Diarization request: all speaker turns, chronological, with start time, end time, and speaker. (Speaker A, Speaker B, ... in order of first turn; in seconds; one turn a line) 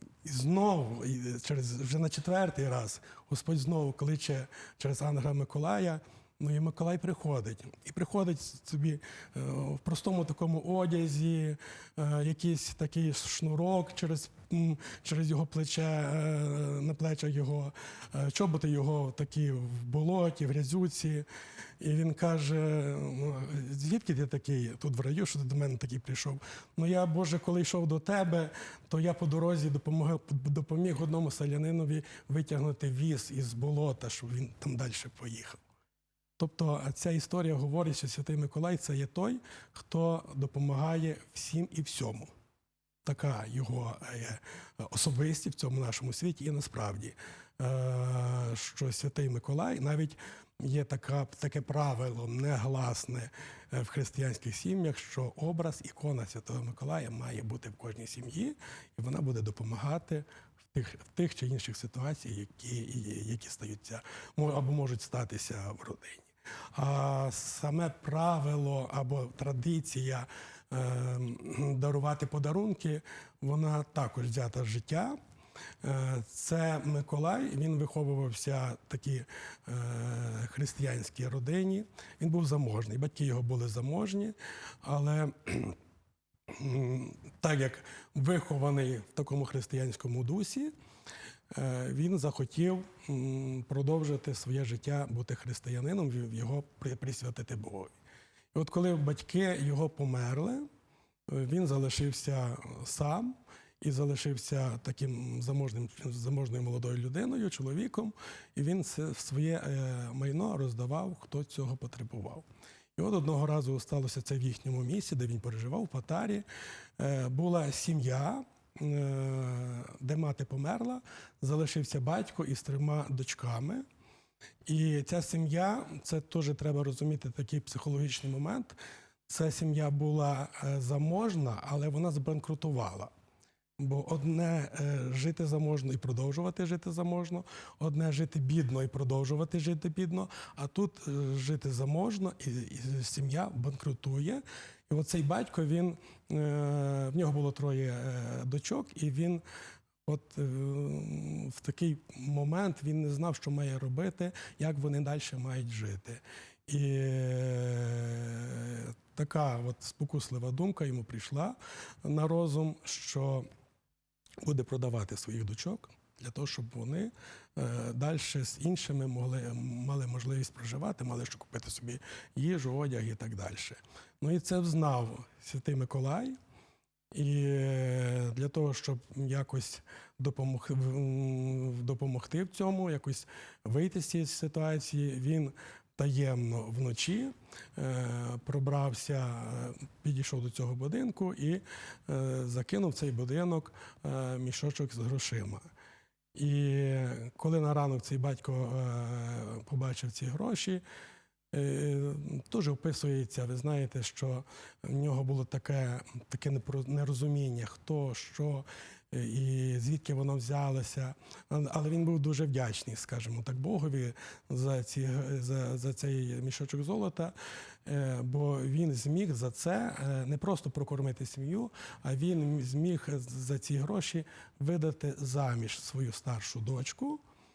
Speaker A: 0.2-21.2
Speaker A: 21.8-35.6
Speaker A: 36.4-42.3
Speaker A: 43.0-75.2
Speaker A: 75.8-85.8
Speaker A: 86.5-90.7
Speaker A: 91.5-97.9
Speaker A: 98.5-100.7
Speaker A: 101.3-116.4
Speaker A: 117.0-123.8
Speaker A: 124.7-128.8
Speaker A: 129.3-133.1
Speaker A: 133.8-149.4
Speaker A: 150.0-163.4
Speaker A: 164.4-176.4
Speaker A: 177.1-195.7
Speaker A: 196.3-200.8
Speaker A: 201.5-217.3
Speaker A: 217.8-227.2